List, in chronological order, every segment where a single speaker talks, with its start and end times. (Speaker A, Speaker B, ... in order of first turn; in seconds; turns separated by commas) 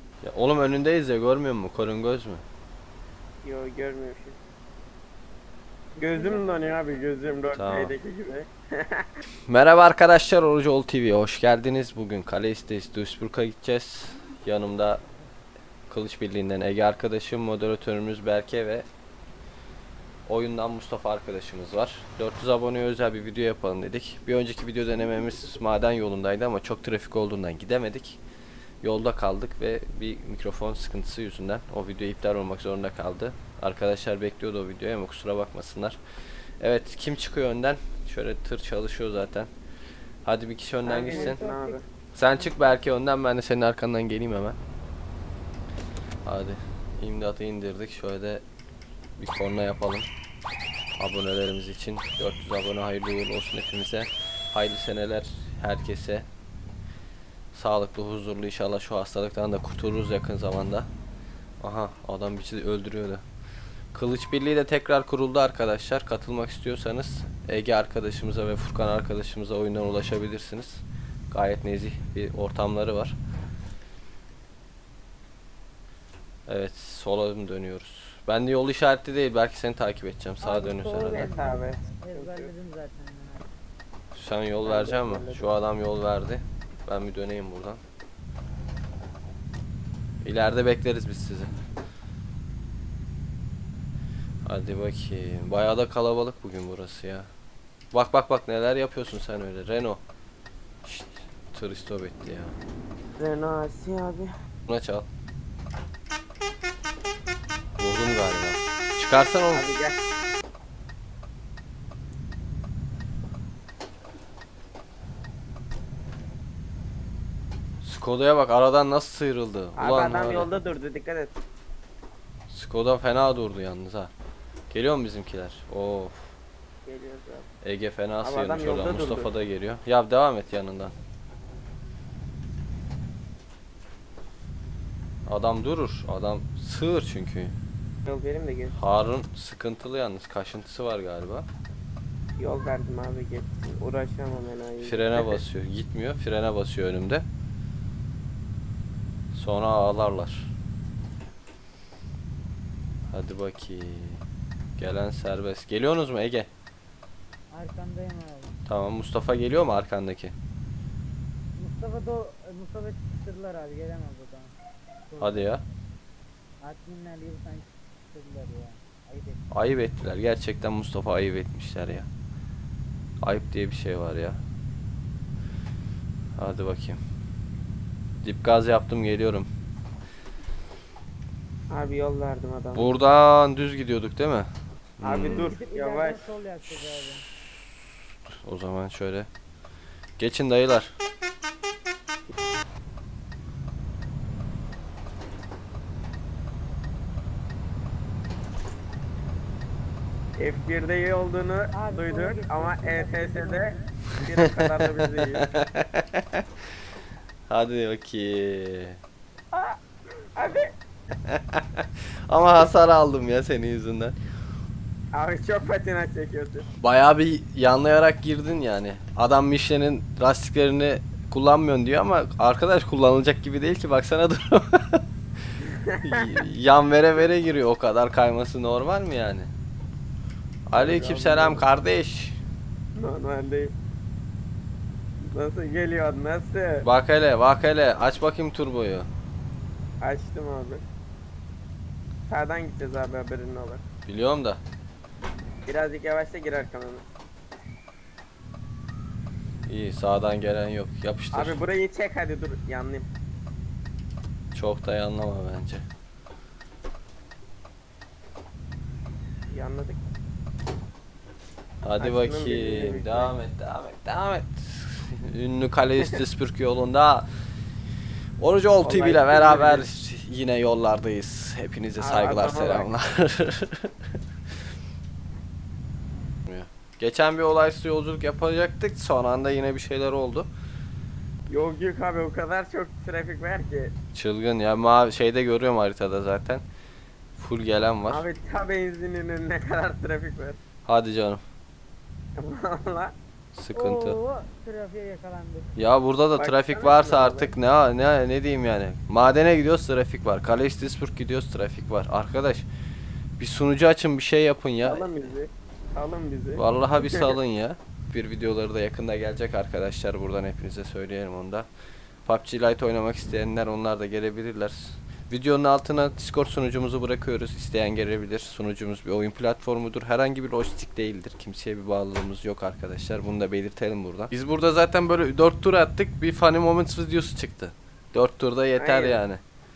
Speaker A: 0.2-2.4, Speaker B: 3.4-4.4, Speaker C: 6.0-7.3, Speaker B: 6.0-9.1, Speaker A: 7.5-8.0, Speaker A: 9.5-15.0, Speaker A: 15.9-18.9, Speaker A: 20.3-28.2, Speaker A: 28.8-36.0, Speaker A: 36.6-39.5, Speaker A: 40.2-41.4, Speaker B: 40.8-41.8, Speaker C: 41.0-41.8, Speaker A: 42.1-44.6, Speaker C: 42.4-42.8, Speaker A: 46.2-48.4, Speaker A: 49.2-50.1, Speaker A: 51.0-56.3, Speaker A: 57.5-60.9, Speaker A: 61.6-63.2, Speaker A: 63.9-73.2, Speaker A: 76.5-81.3, Speaker C: 80.4-83.5, Speaker B: 81.0-82.5, Speaker A: 84.1-87.8, Speaker B: 84.6-85.5, Speaker A: 90.2-91.5, Speaker A: 94.4-97.3, Speaker A: 97.9-100.0, Speaker A: 100.8-102.6, Speaker B: 103.2-104.3, Speaker A: 104.7-105.1, Speaker A: 107.8-109.7, Speaker B: 109.5-110.0, Speaker A: 117.8-120.5, Speaker B: 119.8-121.4, Speaker A: 122.5-124.1, Speaker A: 124.7-126.3, Speaker B: 126.9-127.5, Speaker A: 127.6-130.9, Speaker B: 128.2-129.3, Speaker A: 135.3-137.6, Speaker B: 138.1-138.8, Speaker A: 138.8-141.5, Speaker B: 142.4-145.4, Speaker A: 144.8-147.2, Speaker A: 149.3-150.5, Speaker A: 153.1-154.2, Speaker A: 154.8-156.5, Speaker C: 157.5-158.6, Speaker A: 158.7-160.3, Speaker C: 161.6-164.5, Speaker C: 165.1-165.6, Speaker A: 165.2-165.6, Speaker C: 166.6-169.5, Speaker A: 169.5-172.1, Speaker A: 173.2-174.4, Speaker A: 176.4-177.0, Speaker A: 178.2-179.5, Speaker B: 181.7-183.0, Speaker A: 182.8-185.6, Speaker B: 185.0-186.2, Speaker C: 185.2-187.3, Speaker A: 188.3-189.3, Speaker A: 190.2-190.9, Speaker B: 200.4-205.5, Speaker C: 201.7-203.8, Speaker A: 204.6-206.4, Speaker A: 207.5-209.0, Speaker B: 209.5-209.8, Speaker B: 210.4-210.7, Speaker A: 211.2-214.2, Speaker B: 215.1-216.7, Speaker A: 216.8-225.0, Speaker B: 225.8-226.3, Speaker A: 226.0-229.5, Speaker A: 230.7-232.4, Speaker B: 230.7-231.7, Speaker B: 232.9-233.7, Speaker B: 235.2-236.9, Speaker A: 236.8-239.1, Speaker B: 240.0-240.8, Speaker B: 242.3-243.8, Speaker A: 244.1-244.6, Speaker B: 245.7-247.1, Speaker A: 249.7-251.6, Speaker B: 251.3-253.1, Speaker A: 254.5-255.8, Speaker B: 259.5-260.0, Speaker A: 261.8-267.3, Speaker B: 262.0-263.3, Speaker A: 268.4-273.9, Speaker B: 268.8-269.9, Speaker B: 272.0-272.9, Speaker A: 276.5-280.5, Speaker B: 281.5-283.9, Speaker A: 284.1-286.6, Speaker A: 287.4-288.3, Speaker B: 288.1-290.6, Speaker A: 290.9-291.4, Speaker B: 292.4-293.1, Speaker A: 293.5-294.2, Speaker C: 293.7-295.8, Speaker A: 295.8-302.7, Speaker B: 296.4-297.5, Speaker A: 303.4-305.1, Speaker B: 304.8-307.3, Speaker A: 306.6-311.7, Speaker A: 312.3-329.4, Speaker B: 328.8-329.2